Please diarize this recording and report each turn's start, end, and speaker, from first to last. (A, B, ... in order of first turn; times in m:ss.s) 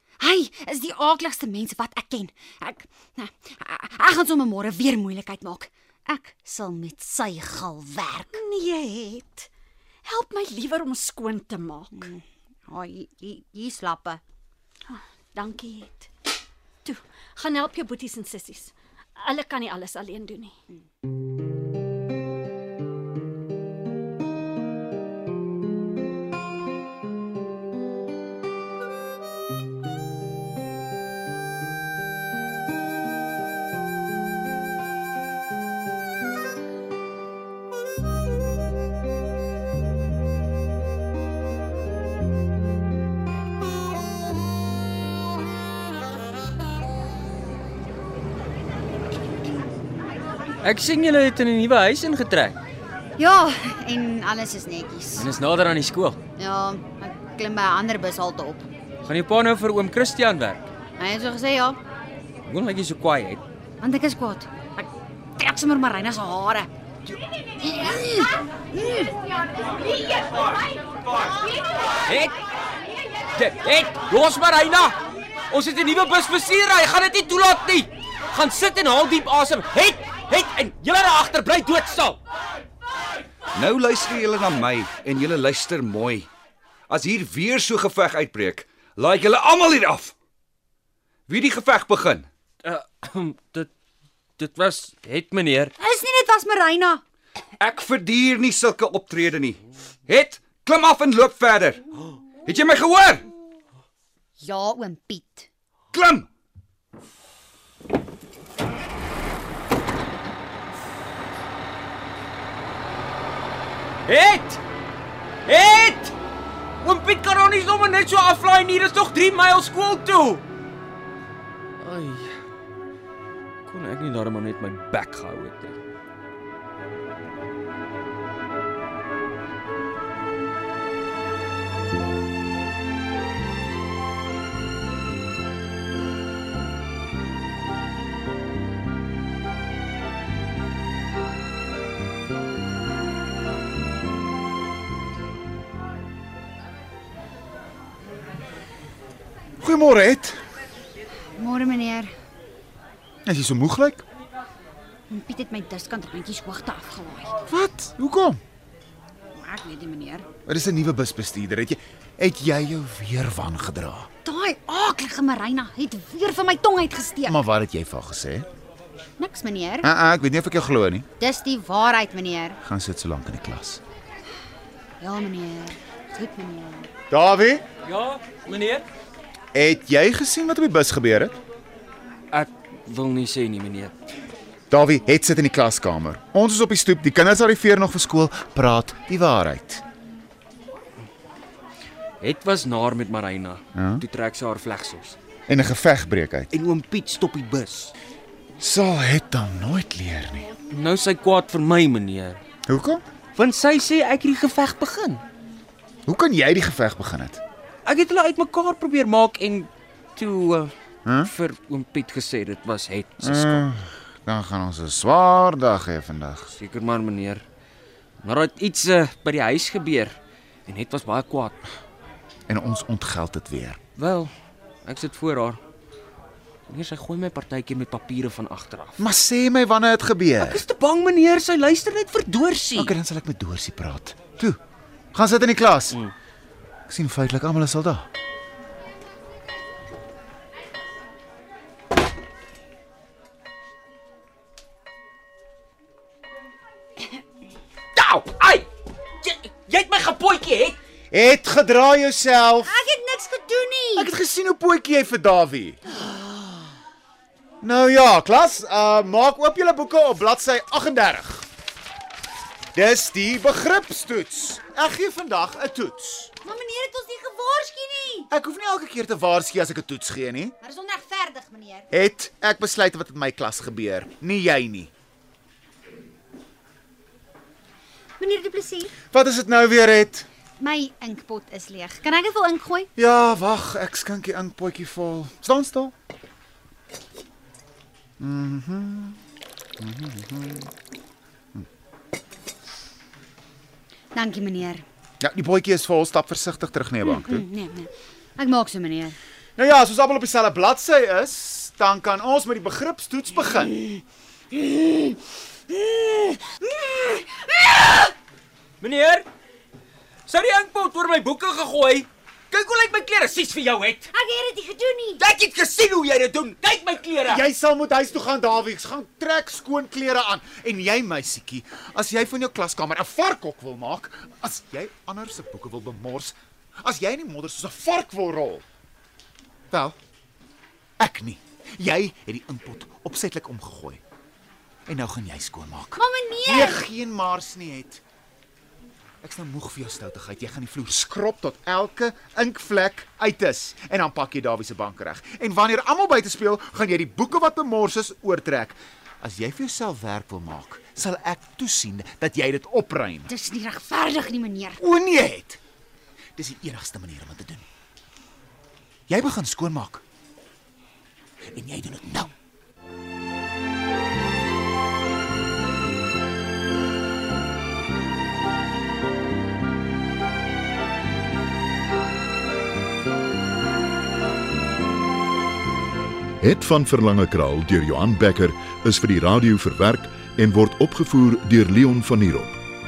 0:00.2-0:08.4 A
0:08.3-0:09.5 B
0:10.0-0:12.1 B
0:12.0-0:14.2 A
0:14.9-0:16.1 B
0:16.8-0:20.5 B
0:50.6-0:52.6 C
0:53.2-0:55.3 A
0:55.2-0:56.2 C
0:56.4-0:58.6 A
0:59.0-1:00.7 C
1:01.0-1:01.8 A
1:02.5-1:03.4 C
1:03.8-1:06.7 A
1:07.6-1:09.1 A
1:12.1-1:12.3 C
1:13.4-1:15.0 C
1:15.5-1:22.2 C
1:23.6-1:26.3 D
1:26.9-1:30.1 D
1:31.3-1:32.3 D
1:32.6-1:33.7 C
1:34.4-1:35.7 C
1:35.8-1:37.0 A
1:37.6-1:41.8 D
1:42.4-1:43.2 D
1:44.4-1:45.5 A
1:45.9-1:46.3 D
1:54.1-1:54.6 C
1:55.5-1:56.1 C
1:56.8-2:00.4 C
2:01.8-2:02.4 C
2:03.7-2:05.8 C
2:29.6-2:30.4 E
2:31.4-2:32.1 A
2:33.3-2:34.0 E
2:35.1-2:37.3 A
2:37.5-2:38.4 E
2:39.4-2:40.3 A
2:40.5-2:44.1 E
2:44.2-2:47.4 A
2:47.3-2:48.5 E
2:49.2-2:49.9 A
2:49.8-2:51.1 E
2:51.2-2:52.6 A
2:52.6-2:53.8 E
2:55.0-2:56.9 A
2:57.1-2:57.6 E
2:57.9-2:58.8 C
2:59.5-3:01.4 E
3:02.3-3:03.9 C
3:04.7-3:09.8 E
3:12.2-3:15.2 C
3:13.8-3:14.0 E
3:15.5-3:16.5 E
3:16.5-3:17.9 C
3:18.6-3:20.5 E
3:20.7-3:22.4 C
3:22.7-3:23.0 E
3:23.4-3:25.2 C
3:26.1-3:27.4 E
3:27.9-3:30.7 C
3:31.0-3:31.3 E
3:31.2-3:33.6 C
3:33.2-3:36.5 E
3:36.5-3:37.4 C
3:38.2-3:41.6 C
3:42.5-3:43.8 E
3:44.0-3:44.3 C
3:44.8-3:45.6 C
3:46.7-3:49.0 C
3:49.0-3:50.6 E
3:50.4-3:53.0 C
3:52.8-3:54.6 E
3:55.1-3:56.0 E
3:56.9-3:58.1 E
4:08.0-4:08.7 C
4:09.2-4:10.8 C
4:11.1-4:12.7 E
4:12.6-4:14.1 A
4:14.0-4:15.8 E
4:17.6-4:21.5 E
4:22.8-4:26.3 E
4:26.4-4:28.3 A
4:28.3-4:30.6 E
4:30.6-4:31.9 A
4:31.9-4:34.9 E
4:38.2-4:38.9 A
4:39.1-4:40.3 E
4:40.6-4:42.9 A
4:43.0-4:45.9 E
4:48.2-4:49.2 E
4:49.8-4:50.7 E
4:54.2-4:54.8 A
4:55.2-4:57.4 E
4:57.1-4:59.2 A
4:59.6-5:03.7 E
5:04.5-5:05.0 A
5:05.7-5:08.0 A
5:08.8-5:09.3 C
5:10.3-5:14.1 C
5:14.1-5:15.2 A
5:15.2-5:17.4 C
5:17.2-5:28.6 E
5:29.7-5:30.0 E
5:31.0-5:34.0 E
5:34.9-5:38.0 E
5:36.0-5:36.8 A
5:39.2-5:53.3 E
5:53.3-5:54.8 A
5:54.8-5:55.6 E
5:56.4-5:57.6 E
5:59.1-6:00.0 E
6:01.5-6:02.3 E
6:16.4-6:22.6 F